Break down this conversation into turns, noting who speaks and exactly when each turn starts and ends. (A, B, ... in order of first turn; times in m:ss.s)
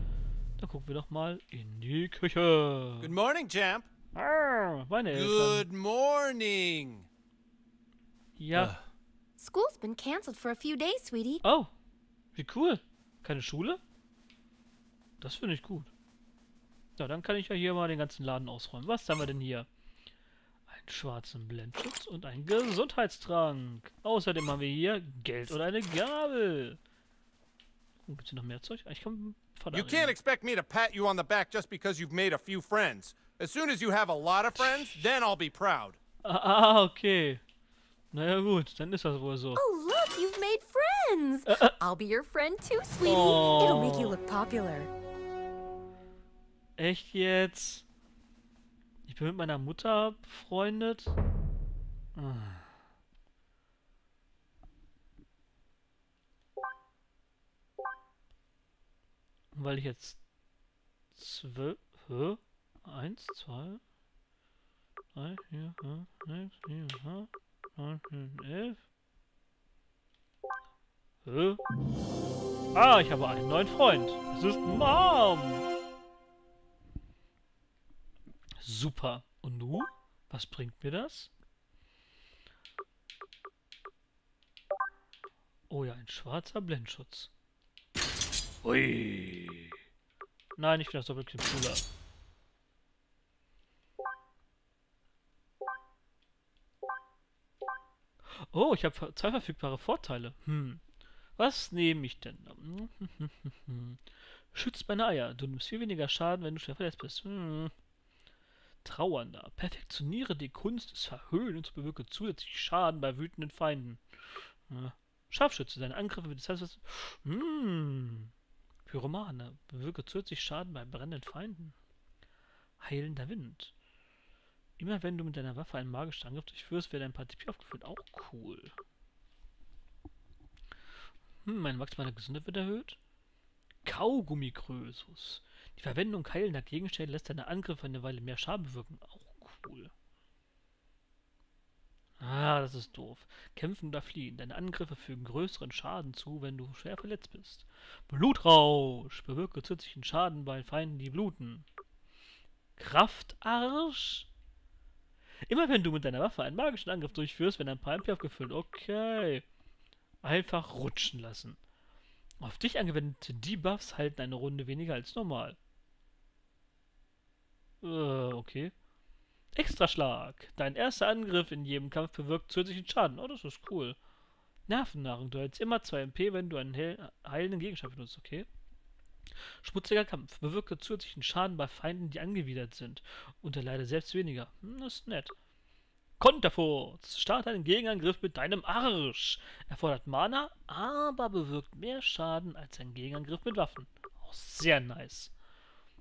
0:00.6-0:03.1 A
0:03.0-0:03.9 B
0:04.2-0:05.7 A
0:05.1-0:07.1 B
0:08.4-0:08.8 A
0:09.4-0:11.4 C
0:11.4-0:11.7 A
0:12.4-0:13.8 A
0:15.2-0:15.9 A
0:17.0-0:19.7 A
0:20.7-0:26.8 A
0:28.1-0:30.2 A
0:29.7-0:36.0 B
0:36.2-0:37.4 A
0:38.1-0:39.6 A
0:39.6-0:44.9 C
0:41.5-0:41.8 A
0:43.0-0:44.2 A
0:46.8-0:47.8 A
0:49.0-0:51.2 A
0:52.2-0:52.7 A
0:59.5-1:00.2 A
1:01.2-1:03.8 A
1:05.2-1:08.8 A
1:11.2-1:11.6 A
1:12.7-1:15.7 A
1:18.6-1:21.3 A
1:25.7-1:27.3 A
1:28.6-1:29.8 A
1:30.6-1:31.8 A
1:38.3-1:40.8 A
1:41.4-1:44.0 A
1:44.5-1:47.7 A
1:48.8-1:54.0 A
1:54.7-1:58.3 A
1:58.9-2:01.8 A
2:02.8-2:03.7 A
2:04.8-2:08.8 A
2:11.4-2:13.0 A
2:13.8-2:19.9 A
2:22.2-2:31.6 A
2:32.8-2:34.3 A
2:35.5-2:39.4 A
2:40.2-2:41.6 A
2:42.4-2:45.6 A
2:47.8-2:48.7 A
2:49.5-2:54.0 A
2:54.7-2:58.5 A
2:59.6-3:05.3 A
3:06.2-3:15.3 A